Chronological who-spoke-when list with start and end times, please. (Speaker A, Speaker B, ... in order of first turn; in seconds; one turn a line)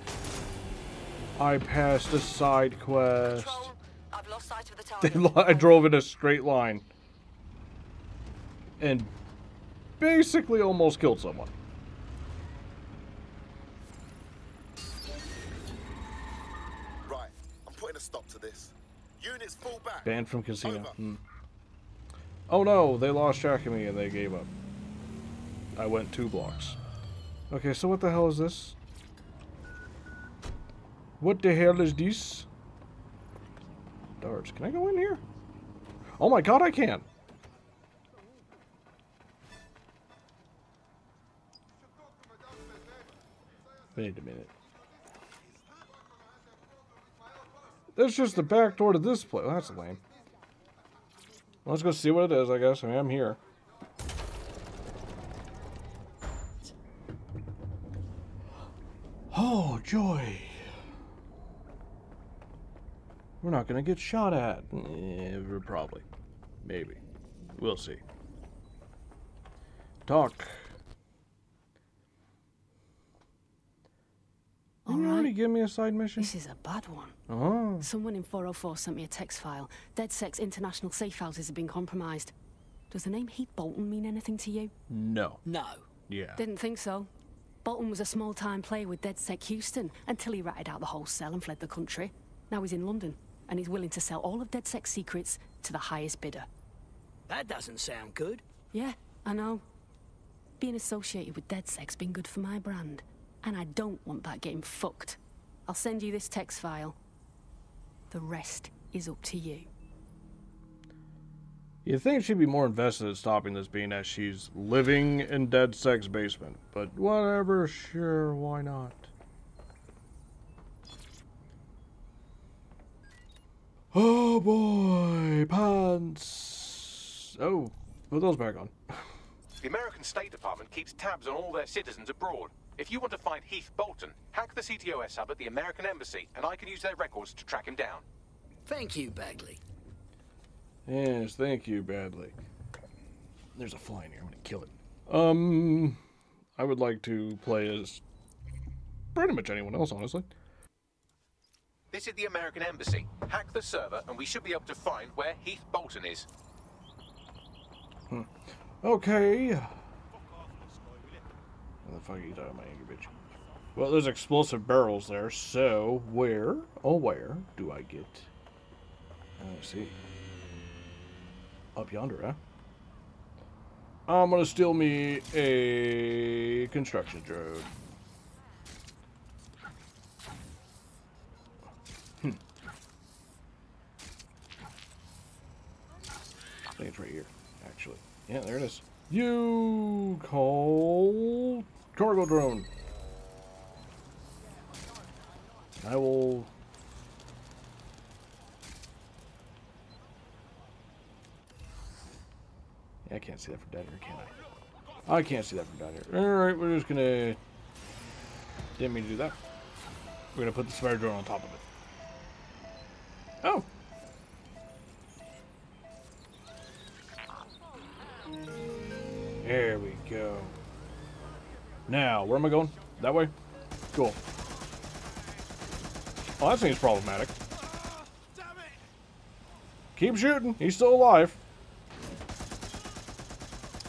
Speaker A: 1.4-3.7
Speaker B: 3.3-5.9
Speaker A: 5.0-6.8
Speaker A: 8.8-9.1
Speaker A: 10.0-11.5
Speaker C: 17.1-20.1
Speaker A: 20.0-21.2
Speaker C: 20.6-20.9
Speaker A: 22.5-24.5
Speaker A: 25.8-26.8
Speaker A: 27.5-28.8
Speaker A: 31.2-32.5
Speaker A: 34.2-35.2
Speaker A: 36.2-37.1
Speaker A: 44.0-44.5
Speaker A: 47.9-50.0
Speaker A: 51.6-53.4
Speaker A: 59.3-60.7
Speaker A: 63.4-66.0
Speaker A: 66.6-67.0
Speaker A: 67.5-68.0
Speaker A: 70.1-70.8
Speaker D: 74.8-75.3
Speaker A: 74.9-76.3
Speaker D: 76.2-77.2
Speaker A: 77.3-77.9
Speaker D: 77.8-82.3
Speaker D: 82.9-84.7
Speaker A: 84.9-85.4
Speaker E: 85.5-85.9
Speaker A: 86.1-86.4
Speaker D: 86.4-87.1
Speaker D: 87.6-96.5
Speaker E: 97.3-98.4
Speaker D: 98.7-99.6
Speaker D: 100.6-107.0
Speaker D: 108.1-109.7
Speaker A: 111.8-119.1
Speaker A: 123.9-129.0
Speaker F: 129.6-138.1
Speaker E: 138.7-139.6
Speaker A: 140.9-142.4
Speaker A: 143.6-146.0
Speaker A: 146.6-148.0
Speaker A: 149.1-150.3
Speaker F: 151.9-156.3
Speaker A: 158.1-159.8
Speaker A: 161.8-163.1
Speaker A: 163.8-168.3
Speaker A: 169.4-169.9
Speaker A: 171.8-172.4
Speaker A: 174.1-177.7
Speaker A: 186.8-192.7
Speaker A: 195.8-196.5
Speaker A: 203.1-204.3
Speaker A: 205.1-207.4
Speaker A: 208.8-209.4
Speaker A: 210.3-211.6
Speaker A: 213.4-213.7
Speaker A: 219.4-220.6
Speaker A: 221.9-223.3
Speaker A: 223.9-224.2
Speaker A: 226.4-227.3
Speaker A: 230.0-231.4